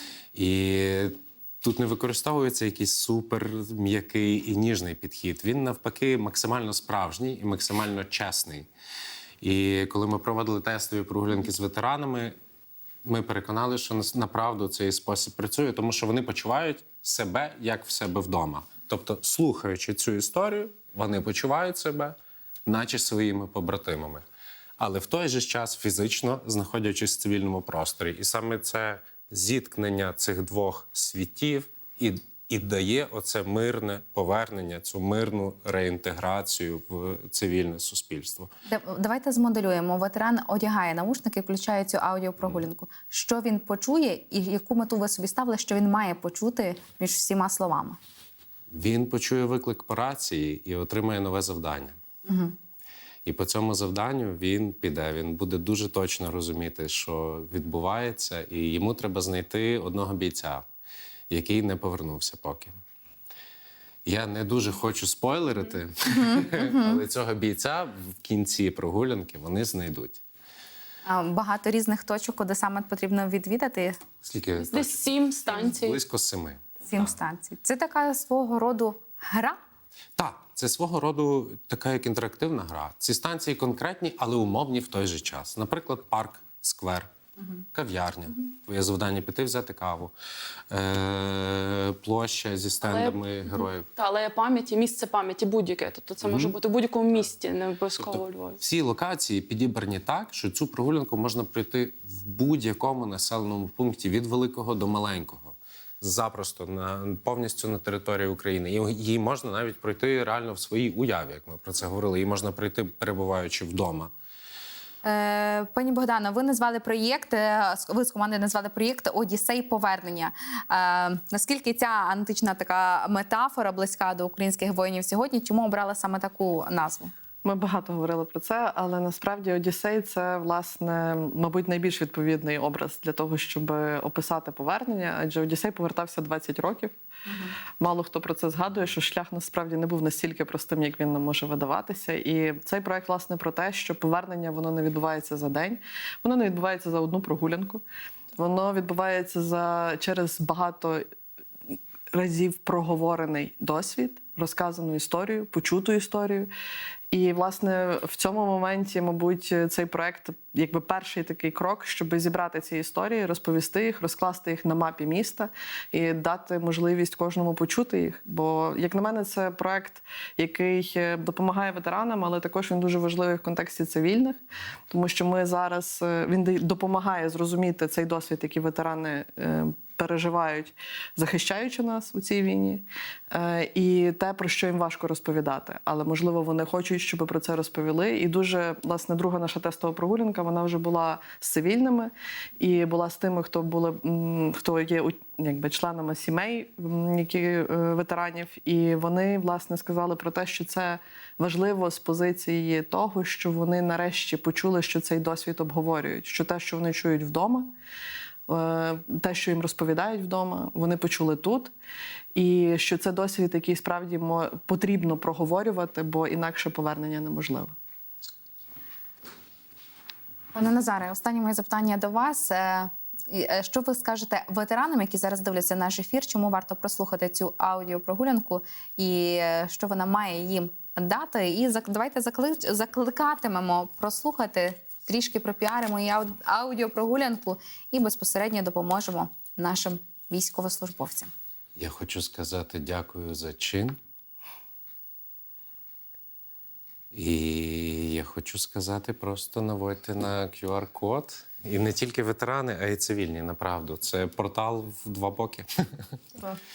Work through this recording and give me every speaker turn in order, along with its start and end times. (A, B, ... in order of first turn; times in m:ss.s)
0:00.3-0:08.7 A
0:09.4-0:12.3 A
0:13.0-0:24.2 A
0:24.8-0:38.5 A
0:38.7-0:48.0 B
0:48.7-0:51.9 A
0:52.2-0:52.5 B
0:53.2-1:00.6 A
1:01.3-1:02.7 A
1:04.0-1:10.2 A
1:06.1-1:07.0 B
1:11.0-1:14.0 B
1:14.2-1:17.1 A
1:14.6-1:16.0 C
1:16.8-1:19.6 B
1:20.2-1:27.1 A
1:27.7-1:30.1 A
1:30.7-1:33.9 A
1:32.8-1:38.6 C
1:36.2-1:36.6 A
1:38.0-1:54.1 A
1:55.0-2:07.1 B
2:07.4-2:16.9 D
2:17.8-2:27.8 D
2:28.4-2:31.0 D
2:32.1-2:36.5 D
2:37.1-2:54.4 D
2:54.9-3:27.7 D
3:28.5-3:31.7 D
3:32.3-3:37.7 D
3:40.5-4:01.3 B
4:01.8-4:04.0 A
4:07.1-4:15.6 A